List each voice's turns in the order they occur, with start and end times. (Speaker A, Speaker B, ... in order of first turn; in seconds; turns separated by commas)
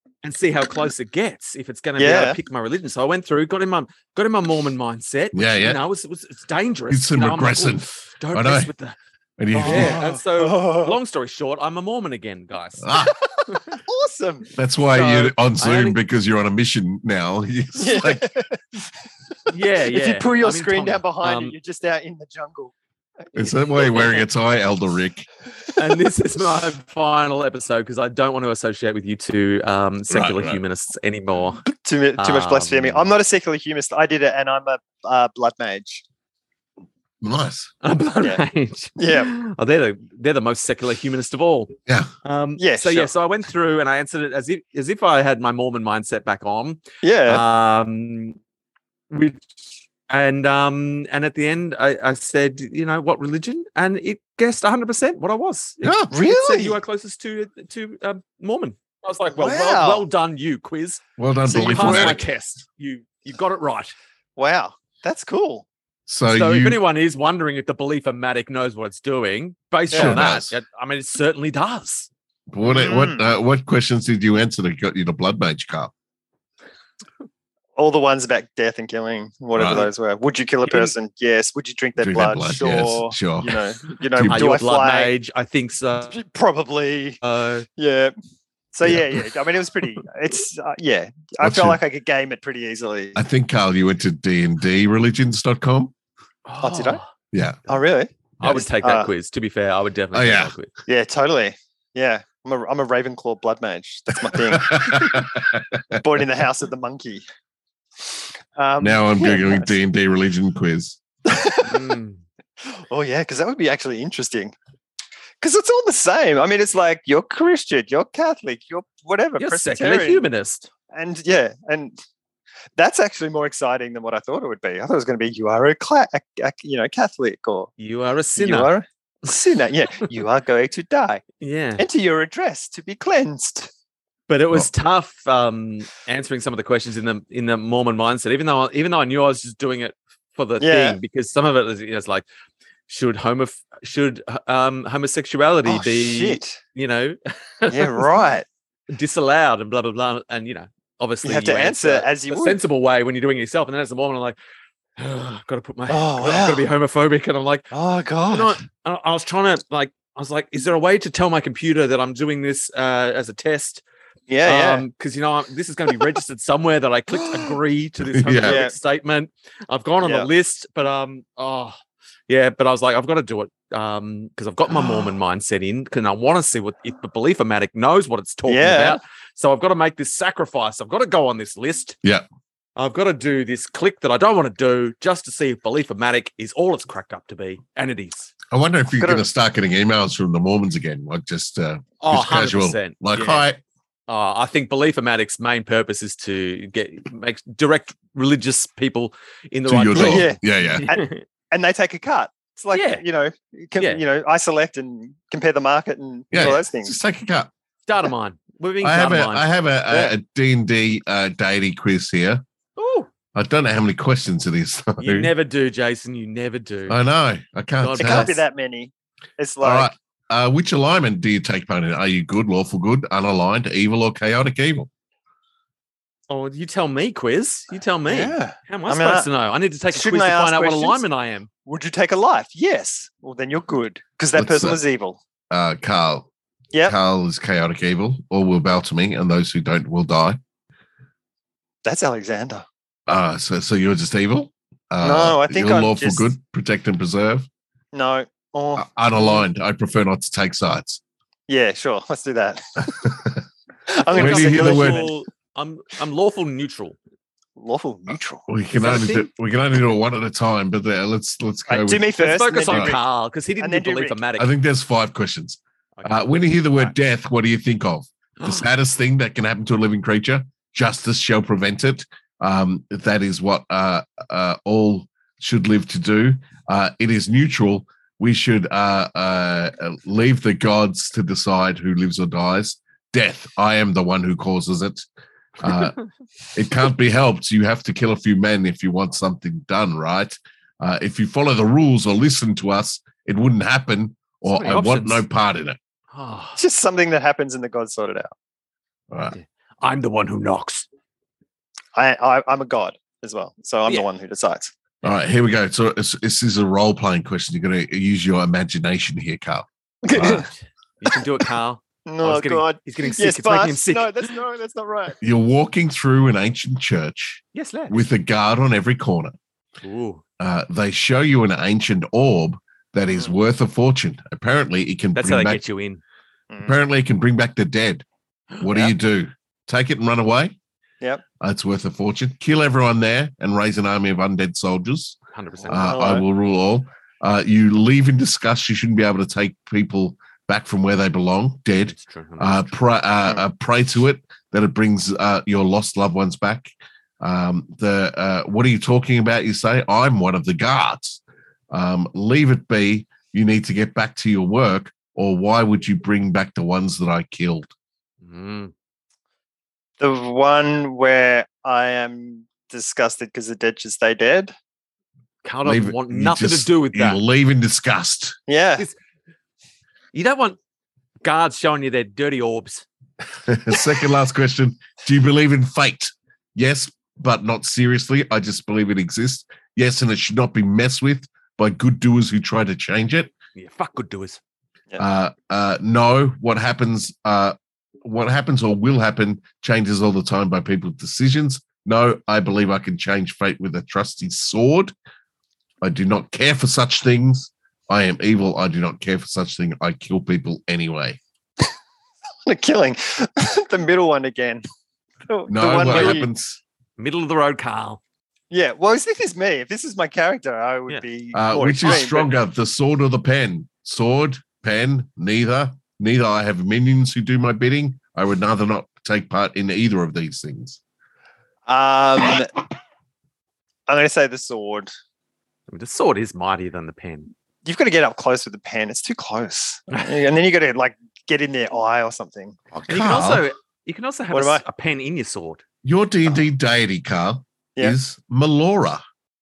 Speaker A: 0.2-9.0, Speaker B: 2.0-2.4, Speaker C: 5.3-5.8, Speaker C: 6.9-8.7, Speaker C: 9.4-10.0, Speaker A: 9.5-12.9, Speaker B: 9.6-11.0, Speaker C: 12.8-13.2, Speaker B: 13.4-14.5, Speaker A: 13.5-13.8, Speaker C: 14.6-18.3, Speaker A: 14.9-16.0, Speaker B: 17.8-18.9, Speaker A: 19.5-21.6, Speaker B: 19.8-22.7, Speaker B: 23.3-24.1, Speaker C: 23.4-25.3, Speaker B: 25.7-26.0, Speaker A: 25.8-31.7, Speaker C: 30.1-30.6, Speaker B: 31.8-36.0, Speaker A: 32.2-33.1, Speaker C: 37.2-37.7, Speaker A: 37.8-48.4, Speaker B: 39.0-39.3, Speaker B: 42.6-43.1, Speaker B: 47.0-47.4, Speaker A: 49.1-63.9, Speaker C: 55.8-56.1, Speaker B: 56.1-56.8, Speaker B: 59.4-60.1, Speaker C: 61.2-62.2, Speaker B: 61.5-62.2, Speaker B: 64.4-65.7, Speaker C: 66.1-66.8, Speaker A: 66.3-72.1, Speaker B: 69.9-70.2, Speaker C: 69.9-70.5, Speaker C: 72.5-75.9, Speaker B: 72.6-73.3, Speaker B: 77.8-85.1, Speaker C: 79.6-79.8, Speaker A: 80.7-80.9, Speaker C: 82.0-83.6, Speaker C: 84.1-84.5, Speaker A: 84.3-86.2, Speaker B: 86.0-87.2, Speaker A: 87.2-87.7, Speaker B: 87.8-88.1, Speaker B: 88.7-93.2, Speaker C: 91.4-91.8, Speaker C: 93.2-95.9, Speaker A: 96.5-97.1, Speaker B: 96.6-97.0, Speaker C: 97.3-97.6, Speaker B: 97.7-99.1, Speaker A: 98.4-100.7, Speaker C: 100.1-100.5, Speaker B: 100.9-105.3, Speaker C: 104.3-106.0, Speaker B: 106.0-107.2, Speaker B: 108.0-109.7, Speaker C: 108.8-111.0, Speaker B: 111.2-112.0, Speaker A: 111.6-112.2, Speaker B: 112.6-114.5, Speaker B: 115.4-120.2, Speaker A: 119.4-120.7, Speaker B: 120.9-122.0, Speaker B: 122.8-127.7, Speaker A: 127.8-128.7, Speaker B: 128.4-131.2, Speaker A: 131.4-131.8, Speaker B: 131.8-133.7, Speaker A: 134.3-142.2, Speaker B: 140.6-141.0, Speaker A: 142.9-148.1, Speaker B: 145.7-146.6, Speaker B: 147.7-148.5, Speaker A: 148.9-154.4, Speaker B: 151.2-152.6, Speaker A: 155.0-157.7, Speaker B: 155.9-156.7, Speaker B: 157.7-158.6, Speaker A: 158.3-163.8, Speaker B: 164.3-164.8, Speaker A: 164.4-171.8, Speaker B: 167.1-167.6, Speaker C: 168.1-168.6, Speaker B: 168.4-168.8, Speaker B: 170.0-170.3, Speaker A: 172.3-182.0, Speaker B: 174.7-175.1, Speaker B: 178.5-179.0, Speaker A: 182.8-188.3, Speaker C: 188.5-193.6, Speaker A: 192.0-193.4, Speaker A: 194.1-201.2, Speaker C: 199.7-200.9, Speaker B: 199.9-206.9, Speaker A: 202.7-203.0, Speaker C: 206.3-207.5, Speaker A: 206.4-206.6, Speaker A: 207.9-209.5, Speaker C: 208.8-212.4, Speaker A: 212.8-213.1, Speaker C: 213.3-215.3, Speaker A: 215.0-217.0, Speaker C: 216.9-218.3, Speaker A: 217.8-218.4, Speaker B: 218.0-219.9, Speaker C: 219.6-224.9, Speaker A: 226.3-231.5, Speaker B: 228.1-229.3, Speaker B: 229.9-231.0, Speaker B: 231.7-235.2, Speaker C: 234.3-234.8, Speaker C: 235.5-236.3, Speaker C: 236.8-240.4, Speaker B: 241.8-242.7, Speaker C: 243.1-247.5, Speaker B: 245.0-246.3, Speaker B: 247.9-249.4, Speaker C: 248.8-251.0, Speaker B: 251.5-253.2, Speaker C: 253.0-253.4, Speaker B: 253.9-255.1, Speaker A: 254.1-257.0, Speaker C: 254.2-255.1, Speaker B: 257.6-258.5, Speaker C: 258.5-262.1, Speaker A: 258.8-259.3, Speaker B: 261.7-263.0, Speaker A: 262.2-264.5, Speaker C: 262.7-262.9, Speaker B: 263.6-264.2, Speaker C: 264.4-285.1, Speaker A: 266.0-266.9, Speaker C: 285.6-286.0, Speaker C: 286.5-295.8, Speaker A: 294.5-295.2, Speaker A: 296.1-296.6, Speaker B: 296.6-298.3, Speaker C: 299.1-299.4, Speaker A: 299.3-300.9, Speaker B: 301.9-304.7, Speaker C: 305.0-310.5, Speaker B: 310.0-310.5, Speaker A: 310.2-314.3, Speaker B: 312.1-315.2, Speaker C: 315.2-319.3, Speaker A: 317.5-318.0, Speaker A: 319.8-320.2, Speaker C: 320.4-325.6, Speaker A: 325.1-326.0, Speaker B: 326.5-326.8, Speaker C: 326.6-328.1, Speaker C: 328.6-330.6, Speaker B: 328.7-328.9, Speaker C: 331.4-335.2, Speaker A: 335.3-336.0, Speaker B: 335.7-336.3, Speaker C: 335.7-357.7, Speaker A: 341.9-342.7, Speaker A: 358.2-358.7, Speaker B: 360.0-364.5, Speaker A: 365.4-367.2, Speaker C: 365.6-368.4, Speaker B: 368.5-368.9, Speaker A: 370.1-370.6, Speaker A: 371.2-372.9, Speaker C: 373.5-383.3, Speaker A: 383.6-384.4, Speaker C: 385.0-394.9, Speaker C: 395.8-401.2, Speaker B: 402.5-404.6, Speaker B: 405.3-406.3, Speaker C: 405.5-406.6, Speaker A: 405.7-406.2, Speaker A: 407.0-408.0, Speaker B: 408.5-412.3, Speaker C: 411.3-420.8, Speaker B: 421.7-422.5, Speaker B: 423.9-424.9, Speaker A: 425.7-427.3, Speaker B: 427.6-432.6, Speaker A: 429.9-430.2, Speaker C: 432.7-433.4, Speaker A: 432.9-435.6, Speaker B: 434.3-434.6, Speaker C: 435.8-439.0